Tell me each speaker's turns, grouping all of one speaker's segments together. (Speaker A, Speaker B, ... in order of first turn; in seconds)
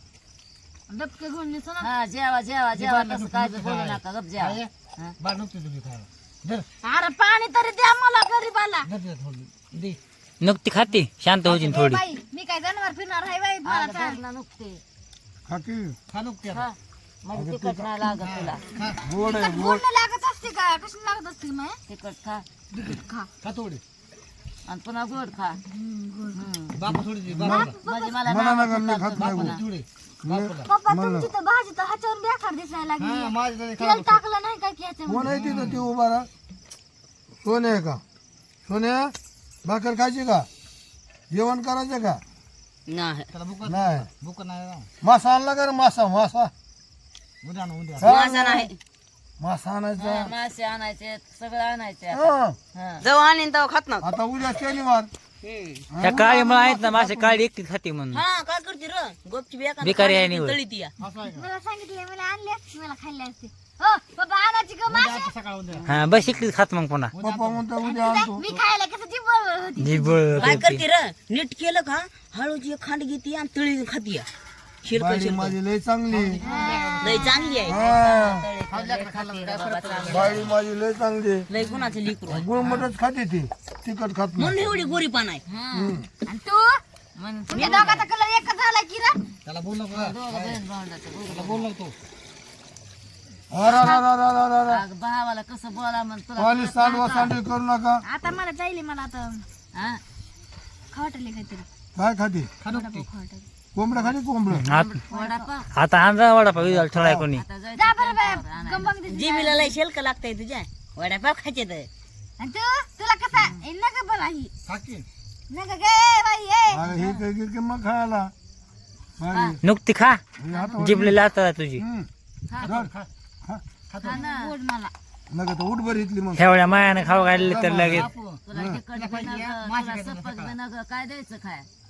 Speaker A: 0.9-1.9, 6.8-8.9, 11.4-14.2, 19.2-21.8, 22.7-23.3, 25.7-26.4, 27.5-28.2, 30.6-35.3, 61.3-65.3, 67.8-70.7, 76.4-77.7, 86.3-86.8, 87.5-89.3, 93.6-94.0, 98.0-99.5, 100.9-101.7, 102.7-103.5, 105.1-105.5, 107.8-109.8, 112.4-114.5, 115.5-116.9, 124.0-124.9
Speaker B: 1.8-5.2, 13.6-14.8, 16.5-18.6, 21.9-22.4, 24.7-25.6, 26.3-26.9, 27.4-29.6, 42.9-43.2, 50.0-53.1, 76.5-76.8, 77.7-80.5, 81.6-81.9, 84.7-86.0, 87.2-88.1, 89.9-91.7, 94.7-97.4, 99.7-100.0, 104.7-105.7, 107.3-108.9, 116.9-117.2, 119.3-119.6, 120.5-120.8, 122.5-122.8, 124.0-124.5, 128.5-131.7
Speaker C: 2.7-6.7, 8.8-10.0, 16.1-16.7, 18.2-19.1, 23.4-23.8, 26.8-27.8, 29.2-30.7, 33.0-34.2, 35.2-35.9, 43.3-44.9, 47.4-48.1, 61.0-61.5, 64.9-66.4, 67.1-67.7, 76.1-77.6, 78.7-80.5, 82.5-82.9, 89.5-90.6, 91.3-91.9, 102.6-103.1, 114.7-115.1, 122.6-123.1, 123.9-124.2, 127.3-128.4, 128.9-130.5
Speaker D: 10.4-12.0, 56.0-58.2, 59.8-60.6, 65.9-67.1, 69.8-70.8, 104.6-105.0, 105.7-107.4, 119.6-120.2, 120.8-121.8, 126.3-128.1
Speaker E: 15.5-16.0, 17.3-18.0, 19.0-19.8, 27.3-27.6, 28.3-29.6, 30.2-31.3, 35.1-36.3, 37.4-38.0, 38.7-40.5, 41.3-42.2, 43.7-44.1, 45.0-46.5, 48.0-48.7, 49.4-50.3, 52.1-52.6, 54.0-55.1, 55.9-57.4, 67.2-68.5, 74.9-76.4, 77.6-78.5, 80.1-81.5, 82.3-84.7, 85.7-86.1, 93.5-94.8, 96.4-98.0, 102.0-102.5, 103.8-104.7, 106.6-107.2, 116.7-118.3, 119.2-119.6, 120.4-121.2, 121.8-122.1, 122.6-122.9, 125.3-126.5, 127.4-128.8
Speaker F: 48.1-48.8, 53.0-54.1, 55.4-55.8, 58.1-60.9, 70.4-74.3, 74.8-75.5, 77.0-77.8, 81.5-82.5, 84.4-85.4, 109.1-111.9